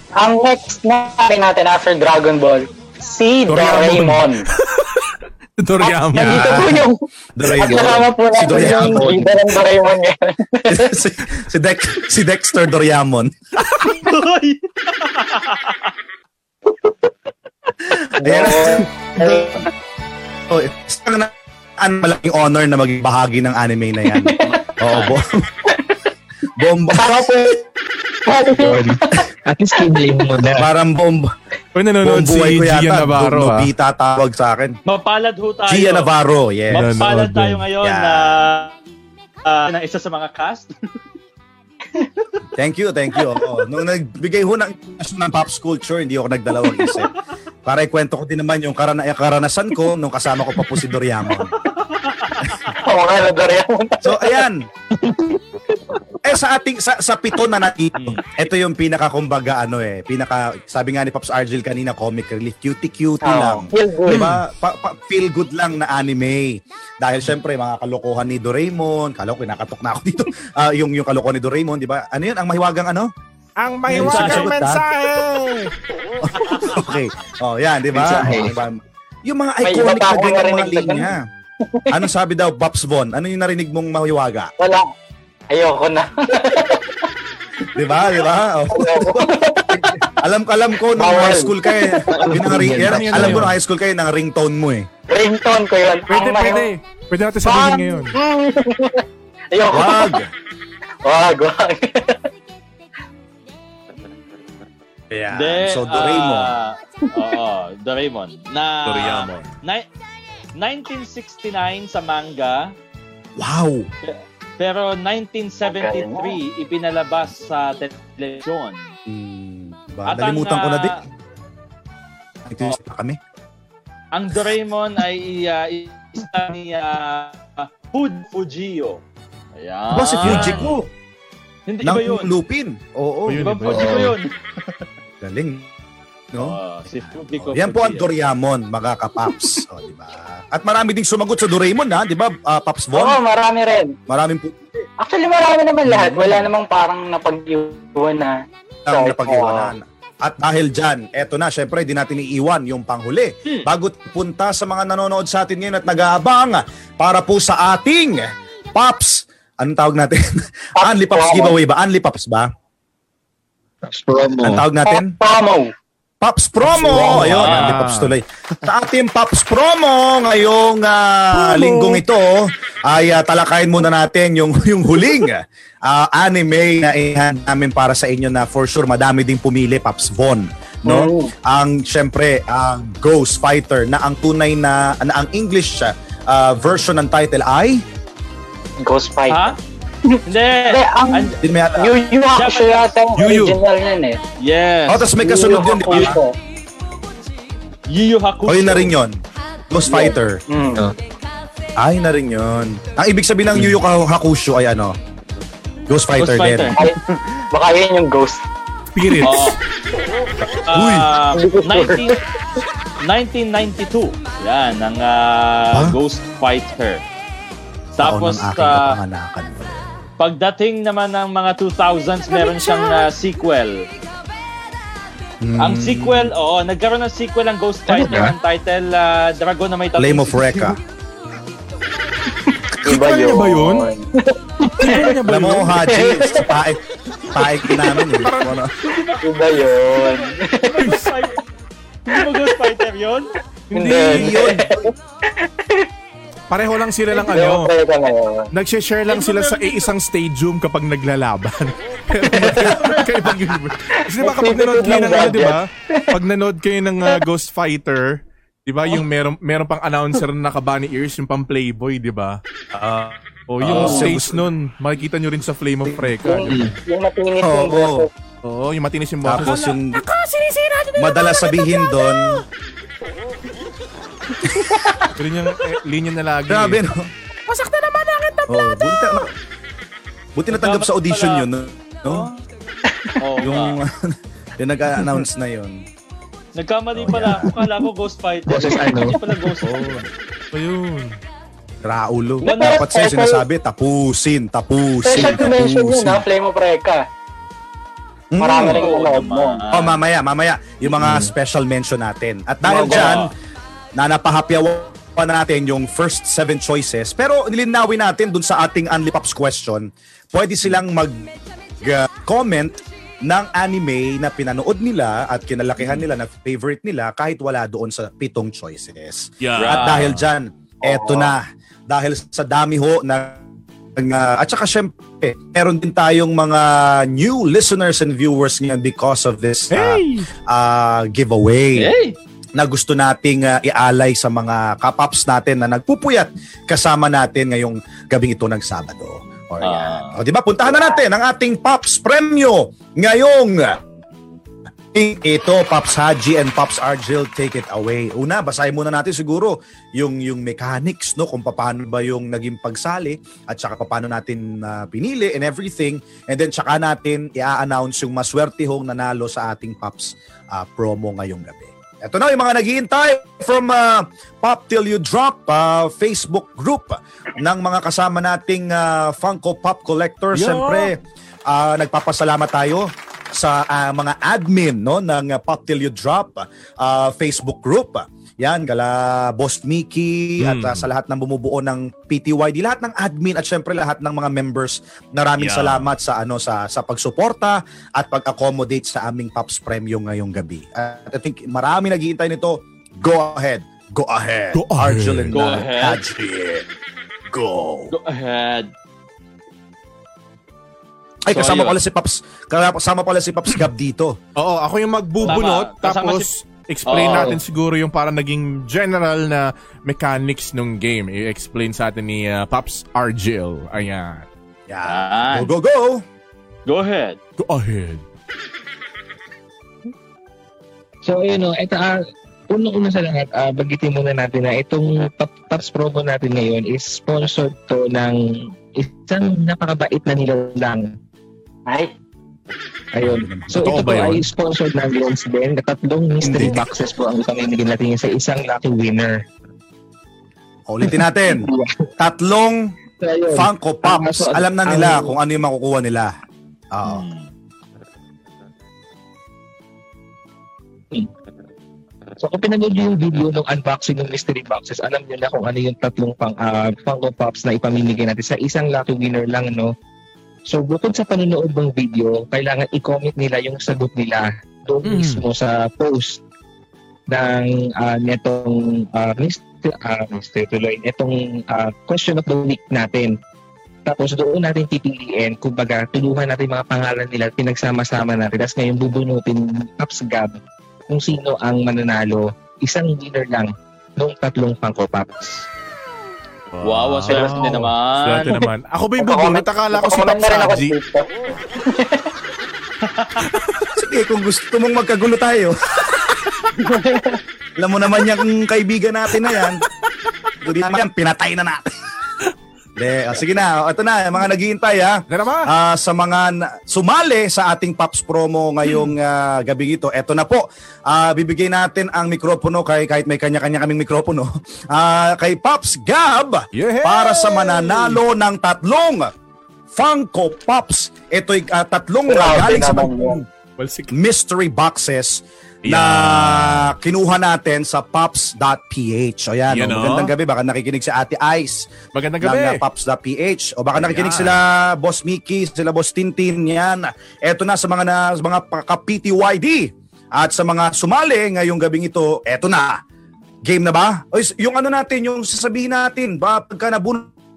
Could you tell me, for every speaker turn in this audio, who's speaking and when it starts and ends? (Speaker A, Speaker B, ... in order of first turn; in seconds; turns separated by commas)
Speaker A: 0.1-4.5, Speaker B: 3.5-6.7, Speaker A: 5.8-10.9, Speaker C: 6.2-9.2, Speaker D: 8.7-9.2, Speaker C: 10.7-13.3, Speaker E: 13.9-15.9, Speaker C: 17.9-19.7, Speaker A: 18.2-19.7, Speaker C: 20.5-25.4, Speaker A: 24.2-24.5, Speaker E: 24.4-25.2, Speaker C: 26.6-27.2, Speaker A: 26.9-27.6, Speaker A: 28.2-29.2, Speaker D: 28.5-30.7, Speaker C: 30.4-31.3, Speaker B: 31.7-33.7, Speaker C: 32.0-34.8, Speaker E: 34.9-36.1, Speaker C: 35.7-36.9, Speaker E: 36.7-38.7, Speaker B: 36.7-37.6, Speaker C: 37.8-38.5, Speaker E: 39.4-40.7, Speaker C: 42.6-47.1, Speaker C: 47.6-51.5, Speaker E: 51.7-52.8, Speaker A: 52.8-54.4, Speaker C: 54.0-54.6, Speaker D: 54.9-56.0, Speaker C: 56.2-73.1, Speaker E: 58.0-58.2, Speaker A: 63.2-64.2, Speaker B: 64.1-64.4, Speaker B: 73.6-75.7, Speaker C: 73.9-74.8, Speaker E: 73.9-74.5, Speaker C: 76.2-81.2, Speaker D: 77.9-78.5, Speaker A: 79.6-81.1, Speaker A: 81.7-82.0, Speaker C: 81.9-84.5, Speaker A: 84.6-84.9, Speaker A: 85.5-87.0, Speaker C: 87.7-94.9, Speaker A: 88.7-90.0, Speaker A: 90.9-92.4, Speaker D: 92.2-93.4, Speaker B: 92.6-93.5, Speaker A: 95.1-96.7, Speaker B: 96.1-98.2, Speaker A: 97.4-100.2, Speaker C: 99.7-100.3, Speaker A: 101.0-102.2, Speaker C: 105.1-106.5, Speaker E: 105.3-109.8, Speaker B: 108.8-109.5, Speaker E: 110.5-112.7, Speaker C: 113.4-113.9, Speaker E: 114.0-118.8, Speaker A: 115.7-116.4, Speaker C: 119.1-121.0, Speaker E: 120.1-121.0, Speaker C: 122.4-123.2, Speaker E: 124.1-129.0, Speaker E: 129.6-130.8, Speaker C: 129.9-130.9, Speaker B: 130.2-130.8, Speaker E: 131.7-132.3, Speaker C: 131.8-133.4, Speaker B: 133.2-134.1, Speaker E: 133.4-134.3, Speaker D: 133.7-134.1, Speaker C: 135.2-135.7, Speaker C: 136.3-143.2, Speaker E: 136.4-138.1, Speaker A: 142.9-143.9, Speaker C: 144.1-144.9, Speaker A: 145.0-148.4, Speaker C: 145.8-146.5, Speaker C: 148.8-162.5, Speaker A: 148.9-149.7, Speaker A: 160.8-161.5, Speaker D: 163.8-164.6, Speaker C: 164.4-165.1, Speaker A: 164.8-165.7, Speaker C: 166.2-187.8, Speaker B: 166.6-168.1, Speaker E: 167.1-167.8, Speaker B: 171.3-172.0, Speaker A: 180.9-181.3, Speaker A: 188.8-189.6, Speaker E: 189.3-189.6, Speaker A: 190.1-194.2, Speaker E: 190.2-191.4, Speaker C: 191.4-191.9, Speaker E: 192.3-192.8, Speaker B: 193.1-193.6, Speaker E: 194.4-195.1, Speaker C: 194.9-196.2, Speaker A: 195.1-196.3, Speaker E: 195.9-196.2, Speaker E: 197.9-198.9, Speaker C: 198.5-199.2, Speaker C: 199.7-200.4, Speaker A: 199.9-200.8, Speaker C: 201.8-204.9, Speaker C: 205.9-206.8, Speaker E: 206.2-206.8, Speaker A: 206.8-208.4, Speaker B: 208.9-209.6, Speaker E: 209.2-209.6, Speaker E: 210.7-212.2, Speaker C: 210.7-211.0, Speaker A: 211.3-212.2, Speaker E: 213.0-217.0, Speaker C: 215.7-216.0, Speaker E: 218.0-218.9, Speaker C: 218.0-220.0, Speaker E: 220.2-223.8, Speaker C: 225.4-226.3, Speaker E: 225.6-230.8, Speaker D: 227.9-228.3, Speaker C: 230.0-230.8, Speaker A: 232.7-235.2, Speaker B: 232.8-233.9, Speaker B: 234.8-235.8, Speaker C: 235.3-238.7, Speaker A: 235.8-236.5, Speaker A: 237.7-238.0, Speaker B: 238.2-238.6, Speaker E: 238.8-241.4, Speaker A: 239.2-241.1, Speaker E: 242.1-243.3, Speaker B: 243.7-244.5, Speaker A: 243.7-245.8, Speaker C: 244.1-244.8, Speaker B: 246.5-247.7, Speaker A: 247.1-248.5, Speaker B: 248.5-262.4, Speaker E: 249.1-249.9, Speaker A: 252.2-253.5, Speaker A: 254.2-256.0, Speaker C: 262.7-264.4, Speaker B: 263.5-266.8, Speaker E: 263.7-264.1, Speaker A: 263.7-264.1, Speaker C: 265.8-266.1, Speaker A: 266.2-268.1, Speaker D: 266.4-266.7, Speaker C: 267.4-268.1, Speaker B: 268.4-271.7, Speaker C: 269.2-270.0, Speaker C: 271.0-272.4, Speaker C: 274.4-274.7, Speaker A: 274.7-275.1, Speaker B: 275.2-276.8, Speaker C: 276.5-277.0, Speaker B: 277.4-278.8, Speaker C: 278.5-279.3, Speaker C: 280.4-282.3, Speaker E: 280.5-281.5, Speaker E: 282.0-282.4, Speaker E: 283.2-283.8, Speaker C: 283.4-285.8, Speaker E: 286.5-289.7, Speaker C: 286.9-287.6, Speaker D: 288.5-289.2, Speaker A: 288.6-289.4, Speaker B: 289.6-291.2, Speaker C: 291.8-296.2, Speaker A: 292.4-293.4, Speaker E: 292.4-292.8, Speaker A: 295.0-297.0, Speaker C: 298.3-298.9, Speaker A: 298.4-299.6, Speaker E: 298.6-300.0, Speaker C: 299.7-303.3, Speaker B: 301.0-301.3, Speaker E: 302.7-303.3, Speaker A: 302.8-303.1, Speaker C: 303.9-323.4, Speaker B: 319.4-320.2, Speaker E: 319.6-320.1, Speaker E: 320.8-321.3, Speaker C: 324.0-331.9, Speaker B: 329.7-330.3, Speaker E: 331.8-332.1, Speaker C: 332.6-343.8, Speaker E: 339.6-340.2, Speaker C: 344.9-396.6, Speaker B: 370.3-370.9, Speaker B: 380.4-380.9, Speaker B: 385.4-385.9, Speaker B: 394.5-395.5, Speaker E: 395.3-396.0, Speaker C: 397.3-397.9, Speaker E: 397.9-398.7, Speaker C: 401.2-404.1, Speaker E: 401.3-401.8, Speaker B: 404.4-414.3, Speaker E: 405.2-406.3, Speaker E: 406.9-407.4, Speaker D: 407.0-407.4, Speaker C: 414.7-416.0, Speaker E: 414.8-415.5, Speaker E: 416.6-417.2, Speaker B: 417.4-418.0, Speaker D: 421.0-428.2, Speaker D: 428.7-430.9, Speaker D: 432.9-439.2, Speaker C: 433.0-433.8, Speaker B: 433.6-434.3, Speaker C: 436.2-436.6, Speaker C: 440.7-442.6, Speaker D: 440.8-441.9, Speaker D: 443.0-445.1, Speaker C: 443.3-446.1, Speaker C: 446.7-447.1, Speaker E: 446.8-447.2, Speaker D: 452.2-459.7, Speaker D: 460.5-466.2, Speaker B: 464.8-465.2, Speaker D: 467.1-473.1, Speaker D: 473.9-485.4, Speaker B: 486.5-490.8, Speaker E: 486.6-488.4, Speaker A: 489.0-491.1, Speaker A: 491.6-492.1, Speaker B: 493.3-493.6, Speaker C: 493.7-496.1, Speaker A: 496.6-497.2, Speaker C: 497.6-499.6, Speaker C: 500.4-501.7, Speaker C: 502.8-519.1, Speaker B: 505.1-505.5, Speaker B: 516.5-518.0, Speaker C: 519.7-523.3, Speaker A: 522.1-523.2, Speaker B: 523.6-523.9, Speaker C: 523.9-531.7, Speaker B: 525.6-526.7, Speaker B: 529.5-530.1, Speaker B: 531.9-532.6, Speaker C: 532.2-542.8, Speaker B: 533.7-534.4, Speaker C: 543.4-547.1